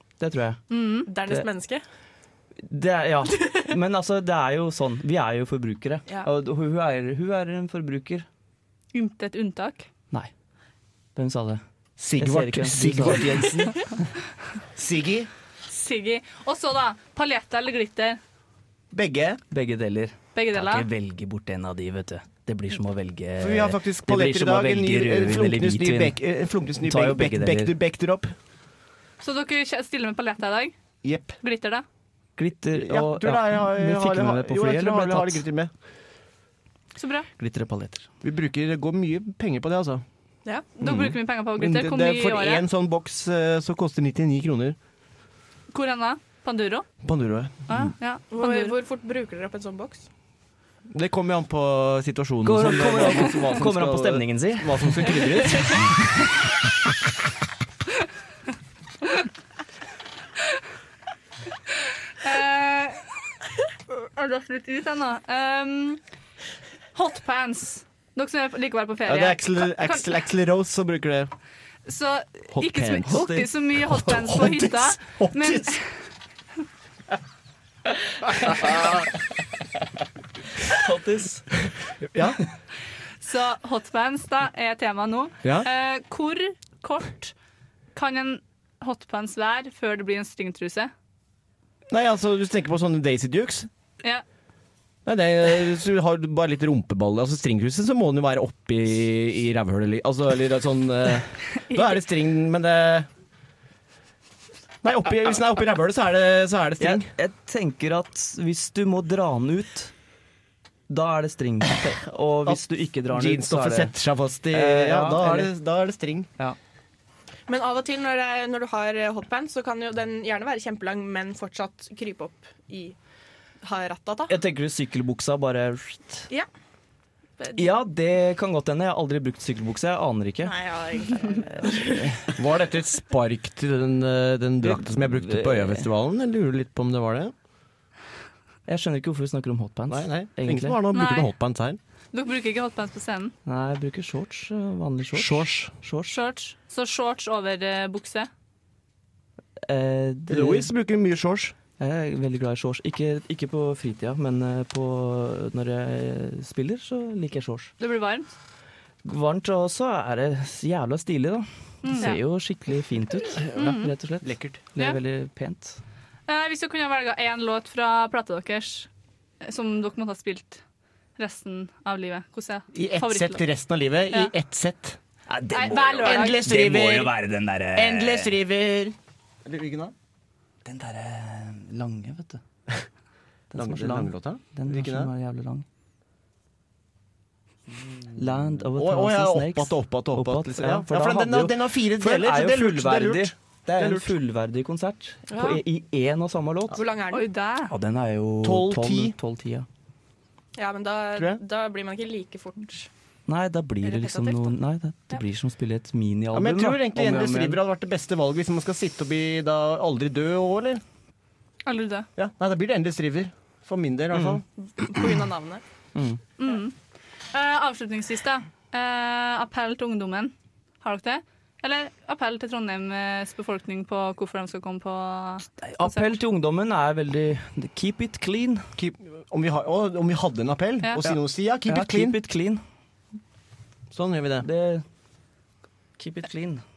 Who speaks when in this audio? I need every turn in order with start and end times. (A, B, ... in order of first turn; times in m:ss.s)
0:00.2-0:00.6 A
0:00.7-0:01.1 B
0:01.1-0:01.8 C
0:02.6-0:08.2 A
0:03.4-0:03.6 C
0:08.9-0:09.8 B
0:11.2-0:11.6 A
0:12.0-0:13.7 D
0:12.2-0:13.7 A
0:14.8-0:15.3 D
0:15.7-0:18.2 B
0:18.9-0:19.4 D
0:19.5-0:26.2 A
0:20.3-0:20.9 B
0:23.4-0:28.3 D
0:26.8-0:27.7 A
0:29.2-0:30.7 B
0:31.0-0:31.4 D
0:31.4-0:31.8 B
0:32.4-0:35.4 A
0:32.7-0:35.7 D
0:37.0-0:37.3 B
0:37.4-0:38.0 A
0:38.2-0:40.0 D
0:40.4-0:40.7 C
0:40.8-0:42.6 B
0:40.8-0:44.8 D
0:45.7-0:46.8 B
0:47.0-0:47.5 D
0:47.7-0:48.8 B
0:48.3-0:50.1 C
0:50.9-0:55.8 D
0:52.4-0:56.0 A
1:02.2-1:03.0 B
1:03.9-1:06.0 B
1:06.9-1:10.1 B
1:09.1-1:11.3 D
1:11.8-1:15.9 B
1:12.5-1:15.8 D
1:20.7-1:21.4 A
1:22.1-1:22.4 D
1:23.2-1:27.3 B
1:25.4-1:25.7 D
1:27.9-1:30.9 B
1:31.9-1:33.7 D
1:35.0-1:43.1 D
1:44.8-1:47.1 D
1:46.8-1:49.9 A
1:50.9-1:53.9 A
1:52.4-1:56.3 D
1:54.5-1:55.5 A
1:57.5-2:03.0 C
2:03.6-2:04.3 C
2:04.3-2:06.2 A
2:07.5-2:10.6 A
2:10.4-2:12.0 C
2:11.8-2:12.2 A
2:12.4-2:17.3 D
2:14.6-2:15.9 A
2:18.7-2:20.8 A
2:19.9-2:21.8 D
2:20.9-2:21.3 B
2:22.1-2:23.3 B
2:23.4-2:26.2 A
2:25.1-2:25.8 D
2:26.1-2:28.3 B
2:29.7-2:30.7 A
2:30.3-2:31.6 D
2:31.8-2:37.7 A
2:37.8-2:38.3 B
2:39.0-2:45.8 A
2:41.8-2:42.2 B
2:43.6-2:43.9 B
2:44.2-2:44.7 D
2:46.3-2:48.9 B
2:49.4-2:50.6 B
2:51.2-2:53.4 B
2:52.7-2:55.0 D
2:55.3-2:58.3 A
2:55.5-2:56.6 B
2:55.7-2:57.2 D
2:57.7-2:59.9 D
3:00.6-3:02.4 A
3:03.5-3:05.6 A
3:03.5-3:05.1 D
3:08.1-3:16.8 A
3:08.8-3:14.1 D
3:15.3-3:15.6 C
3:16.7-3:17.3 C
3:17.1-3:17.7 B
3:17.7-3:19.6 A
3:18.4-3:19.2 D
3:20.6-3:22.9 C
3:21.2-3:21.4 D
3:23.3-3:27.6 A
3:23.8-3:24.5 C
3:26.3-3:30.8 D
3:31.6-3:32.1 B
3:32.2-3:34.4 D
3:34.1-3:34.4 A
3:34.6-3:35.6 C
3:36.4-3:36.7 B
3:37.3-3:46.2 B
3:45.6-3:48.6 A
3:48.8-3:52.2 D
3:51.0-3:52.6 A
3:53.9-3:54.5 D
3:54.4-3:54.8 A
3:56.0-3:56.6 A